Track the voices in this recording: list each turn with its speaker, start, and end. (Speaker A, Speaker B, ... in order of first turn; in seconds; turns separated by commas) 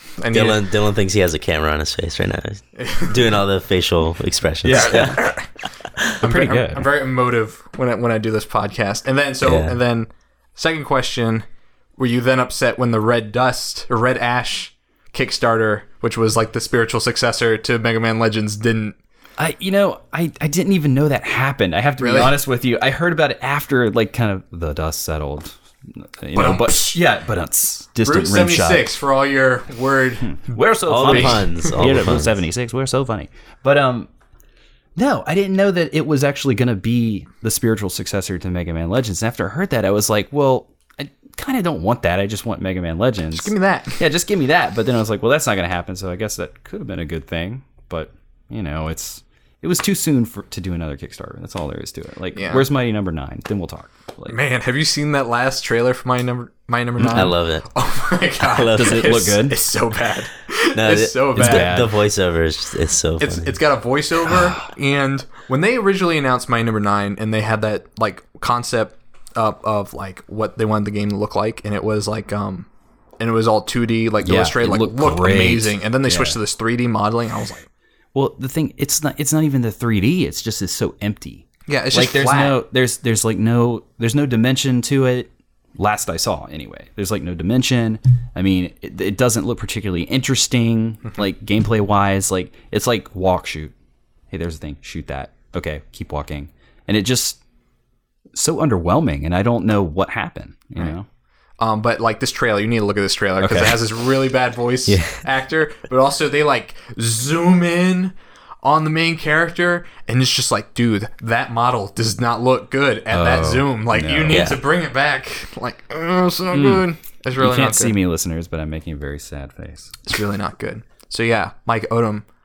Speaker A: 0.2-0.6, Speaker B: 0.3-5.2, Speaker A: 2.8-3.1, Speaker C: 4.6-5.3, Speaker A: 4.7-5.5, Speaker C: 6.2-6.9, Speaker A: 6.2-11.4, Speaker B: 9.4-9.8, Speaker A: 12.0-19.0, Speaker C: 19.4-28.9, Speaker A: 22.0-22.3, Speaker A: 26.4-27.0, Speaker A: 28.0-30.4, Speaker C: 30.2-34.1, Speaker B: 30.9-32.4, Speaker A: 31.1-31.8, Speaker C: 35.0-54.4, Speaker A: 43.3-44.0, Speaker A: 52.4-52.6, Speaker A: 54.3-61.8, Speaker C: 57.0-57.3, Speaker B: 57.1-57.7, Speaker B: 58.5-59.2, Speaker C: 58.7-59.6, Speaker B: 60.8-63.6, Speaker C: 61.4-61.9, Speaker A: 63.2-72.7, Speaker A: 73.2-77.7, Speaker C: 74.2-76.4, Speaker C: 78.1-93.7, Speaker A: 81.7-82.6, Speaker C: 94.3-97.4, Speaker C: 98.3-101.0, Speaker A: 101.6-117.9, Speaker C: 103.4-104.0, Speaker B: 104.9-105.2, Speaker C: 113.1-114.5, Speaker B: 114.3-114.6, Speaker C: 116.5-116.9, Speaker C: 117.4-120.0, Speaker A: 120.1-122.2